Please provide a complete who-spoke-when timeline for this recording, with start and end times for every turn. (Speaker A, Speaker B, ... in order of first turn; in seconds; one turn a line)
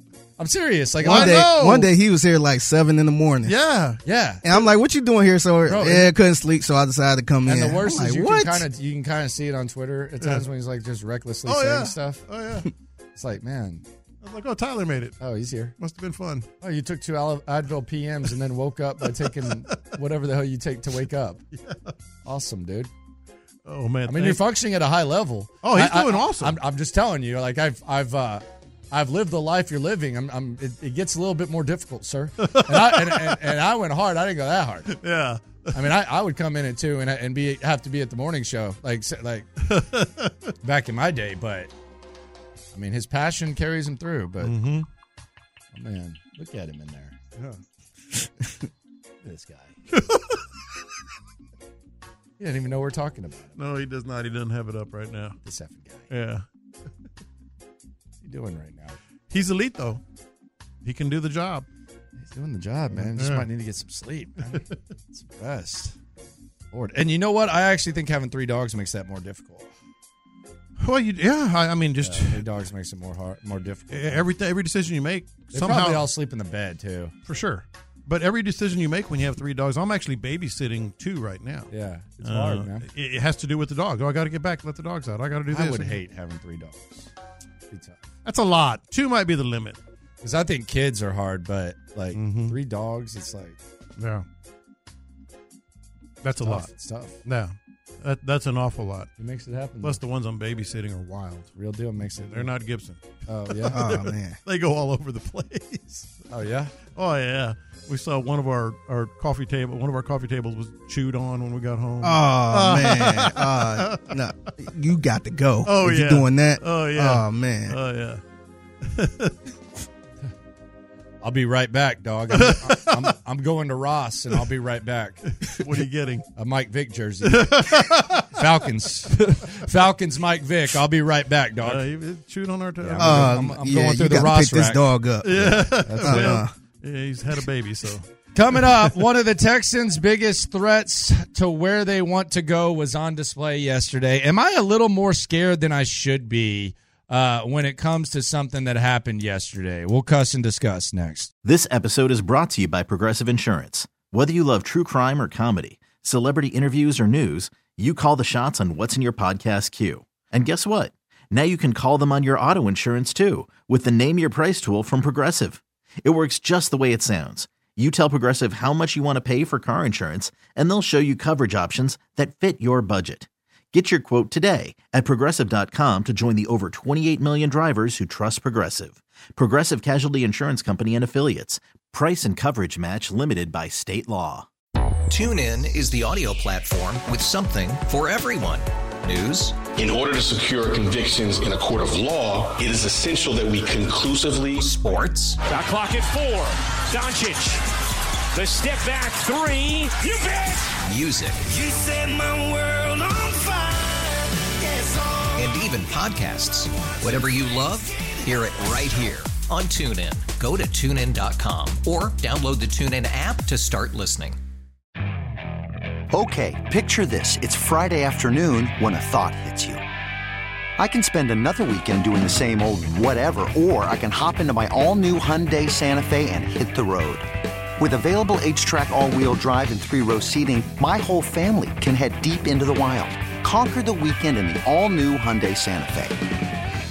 Speaker A: 0.4-1.5
Speaker B: 1.0-3.5
Speaker C: 1.1-1.9
Speaker C: 3.5-4.0
Speaker A: 4.0-4.7
Speaker B: 4.4-8.7
Speaker A: 5.7-6.2
Speaker A: 7.4-12.2
Speaker C: 11.4-12.7
Speaker A: 13.2-13.8
Speaker C: 14.2-15.2
Speaker A: 15.2-15.8
Speaker C: 15.8-16.5
Speaker A: 16.6-21.4
Speaker C: 19.0-19.9
Speaker C: 21.5-21.9
Speaker A: 22.2-22.9
Speaker C: 23.7-24.4
Speaker A: 24.1-35.0
Speaker C: 25.6-26.6
Speaker C: 32.4-33.4
Speaker C: 34.9-35.9
Speaker A: 35.7-39.5
Speaker C: 39.6-40.3
Speaker A: 40.6-41.7
Speaker A: 42.7-44.6
Speaker C: 44.4-44.9
Speaker A: 45.7-47.2
Speaker A: 49.2-49.8
Speaker C: 49.9-50.4
Speaker A: 52.4-53.6
Speaker C: 53.6-55.4
Speaker A: 55.4-56.1
Speaker C: 56.1-56.5
Speaker A: 58.2-59.0
Speaker C: 59.3-60.0
Speaker C: 60.8-61.7
Speaker A: 62.2-66.0
Speaker C: 62.9-63.5
Speaker A: 66.7-69.7
Speaker C: 70.8-72.5
Speaker A: 72.0-74.3
Speaker C: 73.9-76.1
Speaker A: 75.5-77.1
Speaker C: 77.3-86.0
Speaker A: 81.7-82.9
Speaker A: 85.5-87.1
Speaker A: 87.7-88.0
Speaker C: 88.2-89.8
Speaker A: 90.2-93.6
Speaker C: 92.1-92.6
Speaker C: 94.0-94.2
Speaker C: 96.2-96.7
Speaker A: 96.4-97.2
Speaker C: 97.2-99.1
Speaker A: 99.2-100.0
Speaker C: 99.8-106.2
Speaker A: 101.6-102.5
Speaker A: 103.3-103.8
Speaker B: 103.7-104.4
Speaker A: 106.3-106.8
Speaker C: 106.9-114.1
Speaker B: 112.0-117.8
Speaker C: 115.7-118.2
Speaker C: 118.8-119.5
Speaker A: 121.2-125.4
Speaker C: 122.3-123.1
Speaker C: 125.3-126.3
Speaker A: 126.4-131.8
Speaker C: 127.2-128.2
Speaker C: 131.6-133.4
Speaker A: 132.8-136.4
Speaker B: 133.0-136.5
Speaker C: 135.2-138.9
Speaker A: 138.3-151.3
Speaker D: 151.4-184.5
Speaker E: 185.1-189.6
Speaker F: 189.8-194.6
Speaker E: 194.5-195.4
Speaker G: 195.4-197.6
Speaker G: 198.3-200.8
Speaker E: 200.8-201.5
Speaker G: 201.5-205.4
Speaker E: 205.3-214.4
Speaker H: 216.1-219.8
Speaker H: 220.8-236.2